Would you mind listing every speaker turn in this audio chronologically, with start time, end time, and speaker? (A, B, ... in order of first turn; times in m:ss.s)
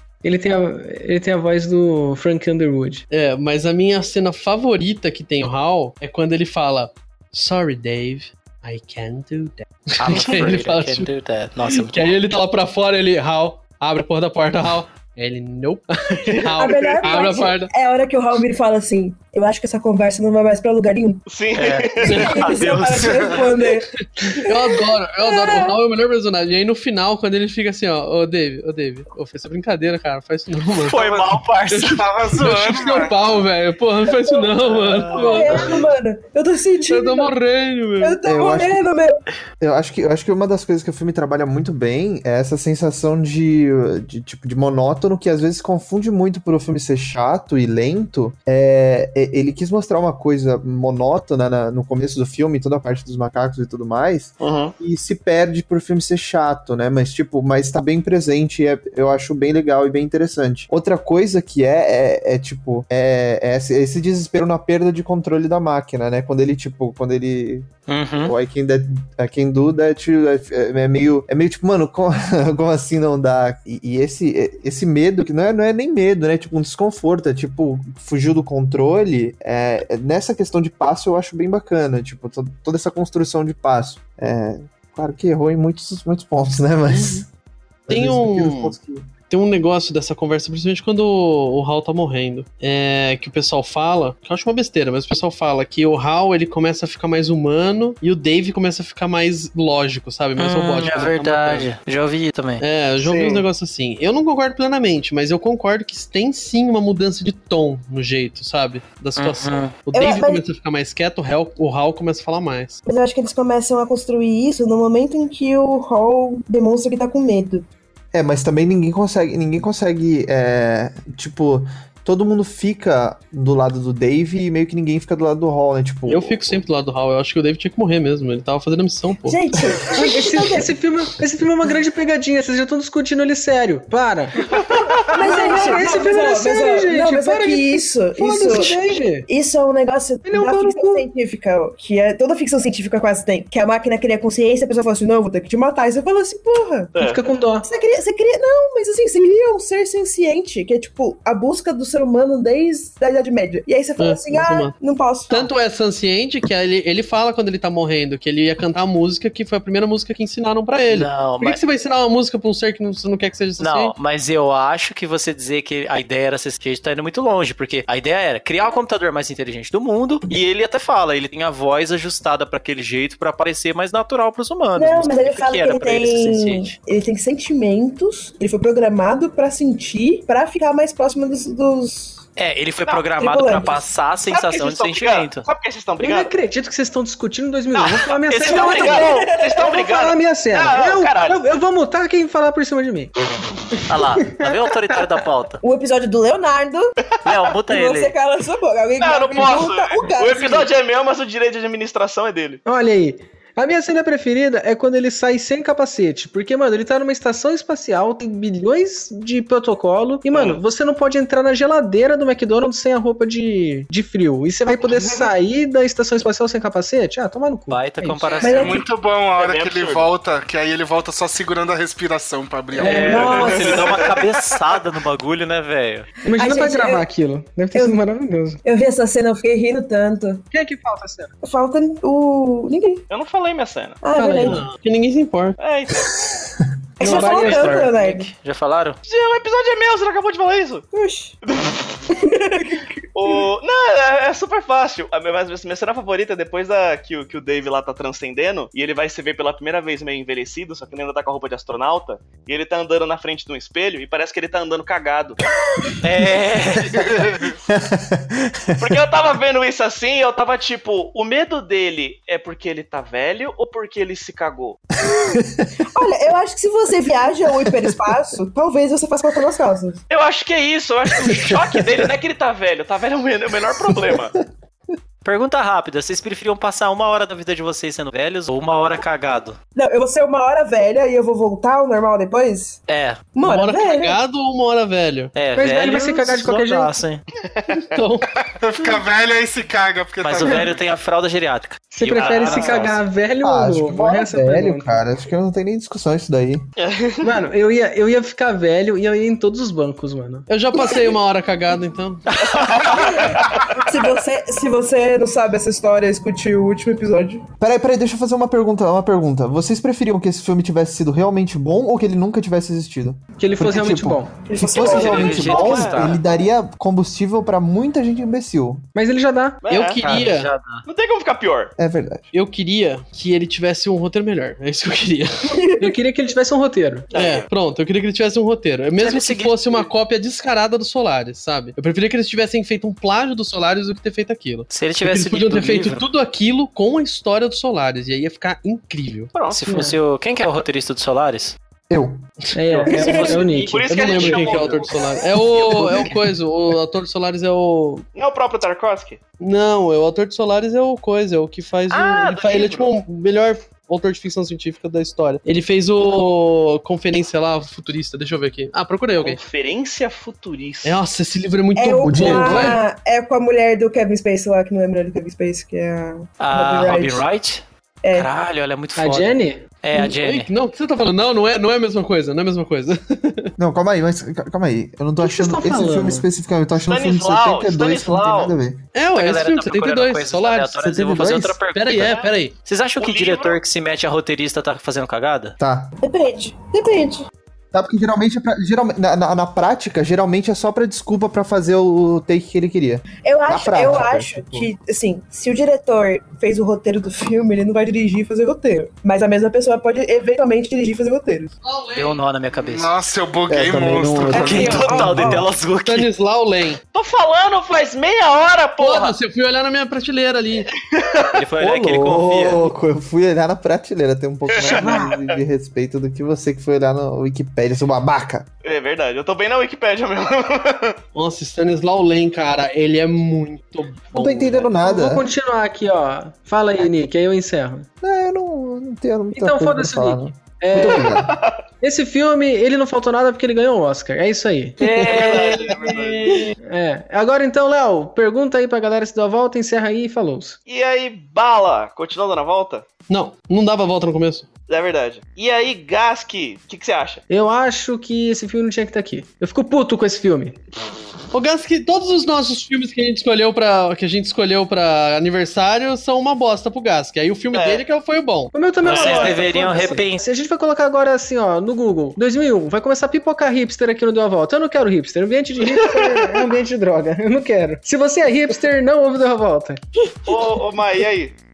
0:00.2-0:03.0 A
0:03.1-0:11.1 B
0:10.0-0:12.1 C
0:11.7-0:17.7 B
0:16.3-0:17.5 D
0:16.4-0:21.2 E
0:21.3-0:22.4 D
0:21.5-0:23.5 C
0:22.0-0:25.8 E
0:24.2-0:31.1 B
0:30.8-0:32.0 C
0:31.7-0:35.9 B
0:31.9-0:33.4 F
0:34.6-0:35.8 C
0:35.1-0:37.4 E
0:36.8-0:38.2 B
0:38.0-0:39.2 E
0:38.2-0:38.9 G
0:39.6-1:27.3 G
0:54.4-0:54.7 D
1:07.9-1:08.3 C
1:26.9-1:27.2 B
1:27.9-1:29.1 G
1:27.9-1:28.8 B
1:29.3-1:41.7 B
1:40.4-1:42.6 C
1:42.6-1:52.8 B
1:43.0-1:43.3 D
1:49.2-1:49.8 C
1:49.9-1:50.4 E
1:52.8-1:57.6 E
1:58.1-2:06.6 G
2:06.1-2:09.4 B
2:09.2-2:10.7 E
2:09.9-2:14.4 A
2:15.0-2:26.9 E
2:15.1-2:19.3 A
2:20.2-2:21.0 A
2:26.9-2:27.2 D
2:27.0-2:27.7 A
2:27.6-2:35.5 E
2:34.0-2:34.7 B
2:35.3-2:43.9 B
2:40.9-2:41.6 C
2:43.6-2:56.7 C
2:54.8-3:02.2 E
3:02.4-3:05.5 C
3:02.8-3:03.1 D
3:03.2-3:03.8 E
3:04.2-3:06.3 D
3:06.0-3:13.1 A
3:08.3-3:09.2 C
3:08.4-3:11.4 D
3:08.9-3:09.8 E
3:13.9-3:15.6 C
3:15.6-3:20.7 E
3:17.2-3:18.1 C
3:19.0-3:22.6 D
3:22.6-3:38.4 A
3:30.3-3:30.6 D
3:37.7-3:38.8 C
3:38.4-3:38.8 E
3:38.5-3:43.4 F
3:39.4-3:40.1 D
3:42.8-3:43.3 A
3:42.8-3:44.2 E
3:42.8-3:46.1 C
3:43.3-3:44.3 D
3:46.2-3:48.6 A
3:46.4-3:47.0 E
3:47.7-3:48.0 E
3:48.6-3:50.4 E
3:50.5-3:51.3 A
3:51.4-3:53.0 E
3:53.1-3:54.0 D
3:54.0-3:54.7 E
3:54.1-3:54.6 A
3:54.4-3:55.6 B
3:55.6-3:56.2 D
3:57.0-3:58.3 E
3:57.0-3:57.9 A
3:57.1-3:59.0 C
3:59.0-4:00.9 D
4:00.9-4:01.4 E
4:01.4-4:02.1 D
4:02.1-4:03.4 E
4:03.1-4:15.4 D
4:16.0-4:17.1 C
4:17.7-4:19.0 G
4:18.8-4:24.8 D
4:25.1-4:25.7 G
4:25.9-4:30.0 E
4:27.6-4:28.1 G
4:30.1-4:34.4 D
4:31.1-4:31.8 G
4:33.9-4:34.2 G
4:35.2-4:39.6 C
4:39.7-4:42.8 E
4:42.9-4:43.3 C
4:43.3-4:44.2 E
4:43.4-4:45.3 B
4:45.3-4:47.2 C
4:45.5-4:47.0 A
4:47.4-4:47.8 D
4:47.7-4:48.3 B
4:48.3-4:50.8 F
4:50.2-4:53.0 C
4:51.9-4:55.0 A
4:52.1-4:52.8 D
4:53.4-4:56.6 G
4:56.8-4:57.2 D
4:57.2-5:00.5 A
5:00.5-5:02.2 B
5:02.3-5:03.2 C
5:02.5-5:03.9 D
5:02.9-5:07.4 E
5:07.6-5:18.8 G
5:13.4-5:14.3 A
5:14.5-5:15.8 E
5:14.6-5:16.2 D
5:14.8-5:16.2 C
5:18.9-5:19.6 A
5:19.6-5:20.2 D
5:19.7-5:20.5 B
5:20.0-5:20.8 C
5:20.8-5:21.7 D
5:21.8-5:22.3 G
5:22.3-5:25.9 B
5:25.8-5:27.1 A
5:27.1-5:27.5 D
5:27.1-5:39.3 B
5:29.0-5:29.8 C
5:34.7-5:36.0 C
5:39.3-5:39.8 D
5:39.4-5:41.6 C
5:39.7-5:40.0 A
5:41.9-5:42.2 G
5:42.5-5:44.7 A
5:42.7-5:43.5 C
5:43.0-5:48.0 B
5:43.1-5:46.0 D
5:48.1-5:49.2 D
5:49.4-5:59.4 B
5:51.9-5:52.9 D
5:59.2-6:01.0 D
6:00.8-6:02.8 B
6:01.8-6:07.3 E
6:02.0-6:02.8 G
6:06.4-6:10.5 C
6:08.0-6:08.3 E
6:09.0-6:09.7 A
6:10.0-6:13.5 B
6:13.6-6:18.8 G
6:15.2-6:16.3 A
6:16.9-6:18.5 D
6:18.9-6:22.6 B
6:19.1-6:25.5 C
6:20.8-6:21.6 G
6:21.9-6:22.3 D
6:23.0-6:23.6 D
6:25.6-6:26.0 G
6:26.0-6:27.3 E
6:27.7-6:34.7 G
6:33.2-6:41.5 E
6:41.6-6:42.2 B
6:41.9-6:42.9 C
6:42.6-6:45.1 F
6:43.5-6:45.4 G
6:44.3-6:46.1 C
6:44.6-6:45.3 E
6:45.8-6:46.8 B
6:46.9-6:49.2 D
6:48.8-6:50.7 B
6:50.7-6:51.4 D
6:51.3-6:52.7 C
6:51.6-6:58.5 G
6:54.5-6:55.4 D
6:58.6-7:01.0 D
7:01.1-7:04.7 B
7:04.1-7:05.2 G
7:04.8-7:07.9 A
7:08.0-7:11.4 G
7:09.3-7:11.2 A
7:10.8-7:11.6 D
7:11.8-7:14.8 A
7:14.8-7:16.5 D
7:15.1-7:16.3 F
7:16.6-7:20.6 A
7:20.7-7:22.9 D
7:23.1-7:24.5 B
7:24.7-7:27.2 D
7:27.3-7:30.6 A
7:31.3-7:38.5 B
7:37.5-7:37.8 D
7:38.5-7:49.8 A
7:38.8-7:40.2 C
7:38.8-7:39.4 D
7:50.2-7:51.4 D